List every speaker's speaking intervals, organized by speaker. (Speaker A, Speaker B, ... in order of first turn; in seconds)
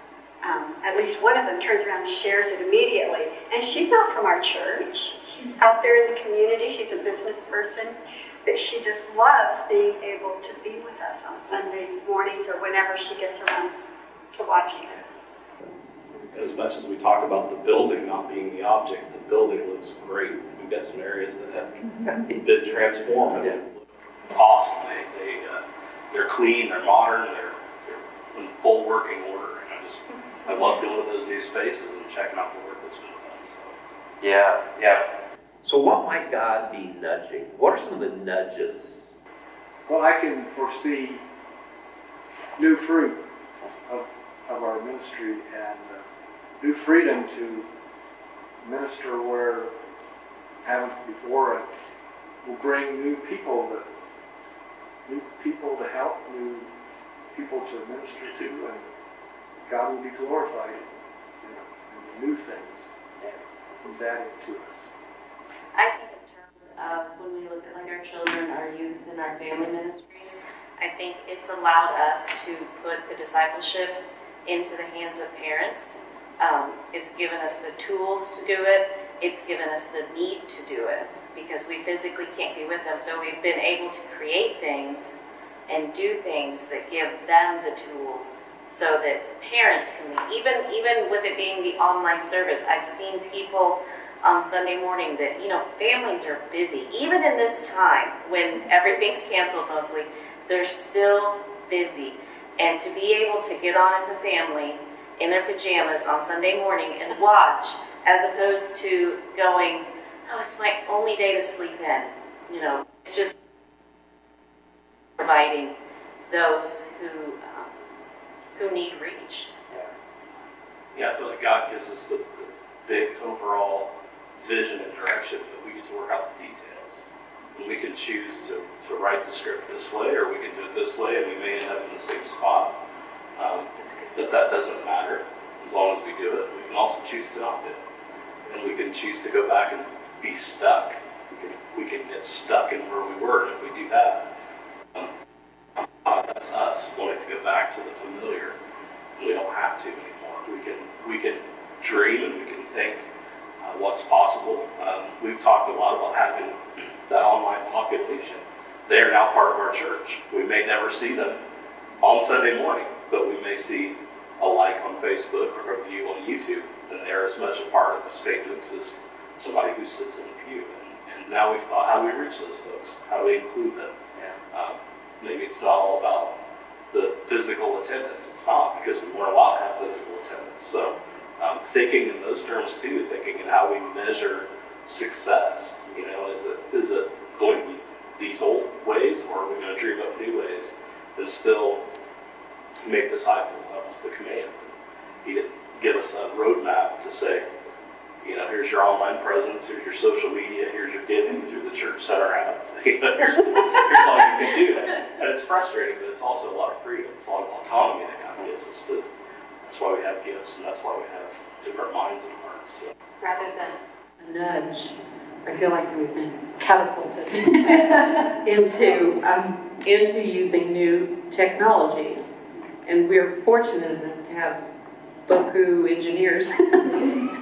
Speaker A: 0.4-13.7, 14.3-15.0
Speaker B: 16.3-21.7, 22.3-23.7, 24.3-33.8, 120.9-132.8, 133.4-137.8, 138.5-144.3, 146.1-148.6, 149.2-153.1, 153.6-161.4, 162.0-174.0, 174.5-176.4, 176.9-191.8, 192.8-194.7, 195.2-197.4, 198.2-209.1, 209.6-212.9
Speaker C: 34.2-35.0, 35.6-39.1
Speaker D: 39.9-41.2, 42.6-43.2, 43.9-46.0, 46.6-47.7, 48.6-49.7, 50.6-51.7, 52.4-53.9, 55.1-56.7, 57.3-58.9, 59.6-60.9, 61.4-64.9
Speaker E: 65.8-85.2, 85.7-113.3, 115.2-115.8, 116.3-117.8, 118.5-119.6
Speaker F: 133.8-134.1, 214.2-224.6, 225.3-227.1